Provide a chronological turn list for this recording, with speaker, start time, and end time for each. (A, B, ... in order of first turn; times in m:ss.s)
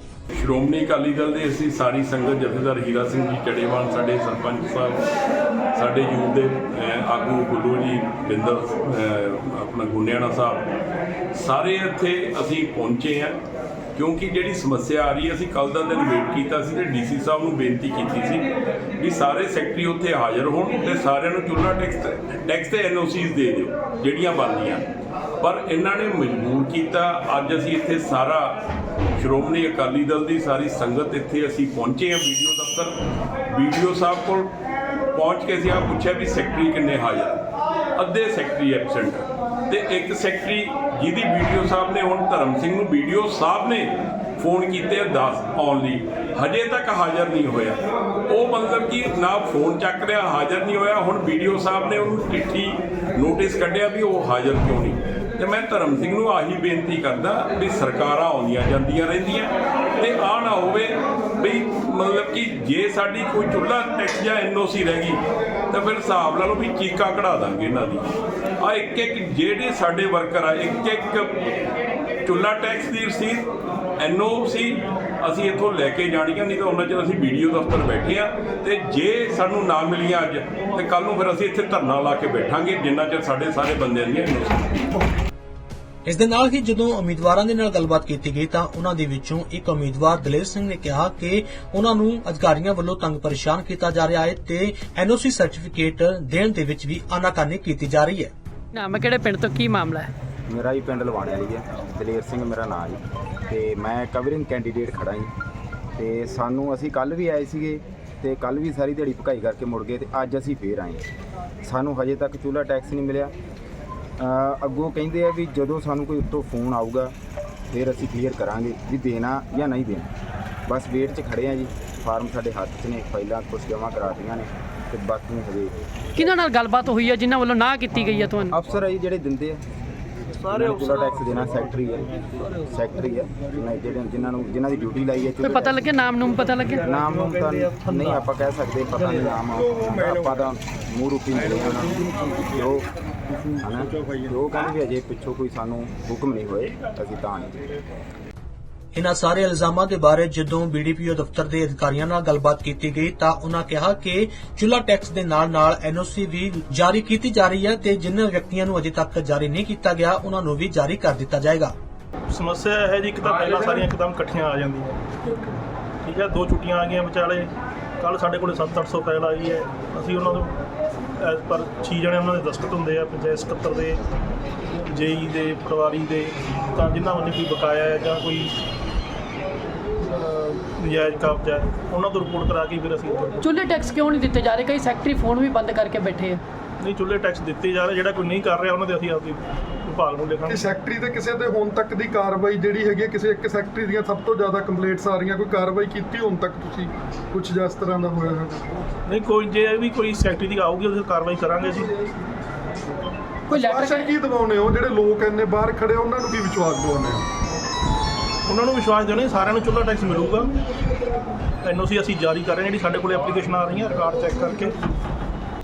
0:00.3-0:05.0 A
0:05.7-0:10.6 A
0:11.3-0:13.4 A
0:13.9-0:24.8 A
0:25.4-0:28.6 A
0:29.2-0:32.9 A
0:33.5-0:34.5 A
0:35.1-0:37.4 A
0:37.9-1:11.4 A
1:12.2-1:24.9 A
1:26.1-1:38.3 B
1:38.7-1:40.1 C
1:40.5-1:45.3 D
1:46.0-1:51.0 D
1:51.6-1:53.3 D
1:54.2-1:57.1 D
1:57.7-2:00.1 D
2:00.7-2:05.7 D
2:06.2-2:08.5 C
2:08.5-2:09.6 D
2:10.4-2:15.9 D
2:15.4-2:16.8 C
2:16.8-2:22.9 D
2:23.6-2:27.6 D
2:29.0-2:41.7 B
2:42.3-2:45.0 E
2:46.0-2:47.5 E
2:48.0-2:50.5 E
2:51.2-2:54.0 E
2:54.9-2:58.5 E
3:00.0-3:03.5 E
3:03.4-3:06.4 C
3:06.8-3:10.7 E
3:10.5-3:18.6 F
3:19.1-3:22.0 E
3:23.5-3:27.2 F
3:23.5-3:24.1 C
3:28.4-3:30.5 E
3:31.6-3:34.7 E